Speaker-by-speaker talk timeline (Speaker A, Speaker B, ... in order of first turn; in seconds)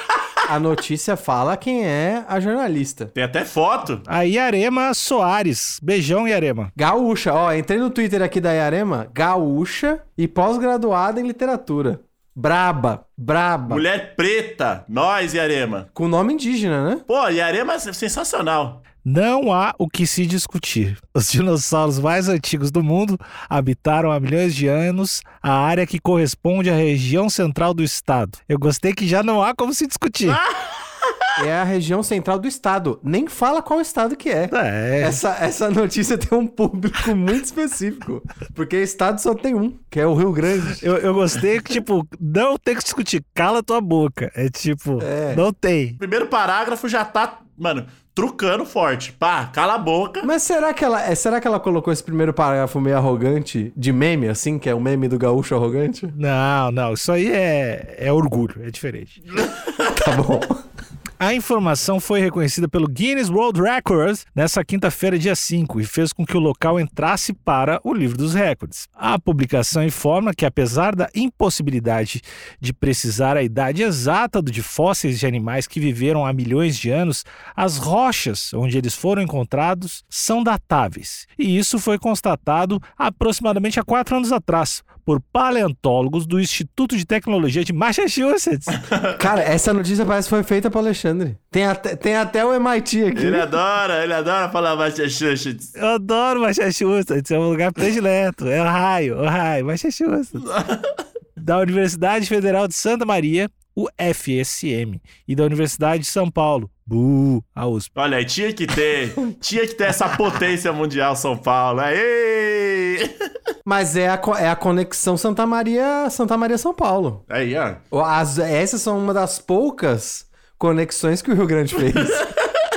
Speaker A: 0.5-3.1, 6.8-13.8, 15.9-17.0, 31.4-40.9, 45.0-45.4, 50.2-56.1, 59.8-60.6, 89.2-93.5, 113.6-117.2, 117.9-122.3
Speaker B: 3.1-4.0, 13.7-15.9, 17.1-18.8, 30.2-31.1, 46.0-50.3, 88.8-89.2, 93.1-95.7, 100.4-100.9, 108.0-113.1, 117.3-117.8
Speaker C: 4.1-6.7, 19.0-30.4, 34.5-35.2, 40.8-46.0, 56.1-59.2, 61.2-88.8, 95.8-100.5, 101.4-107.9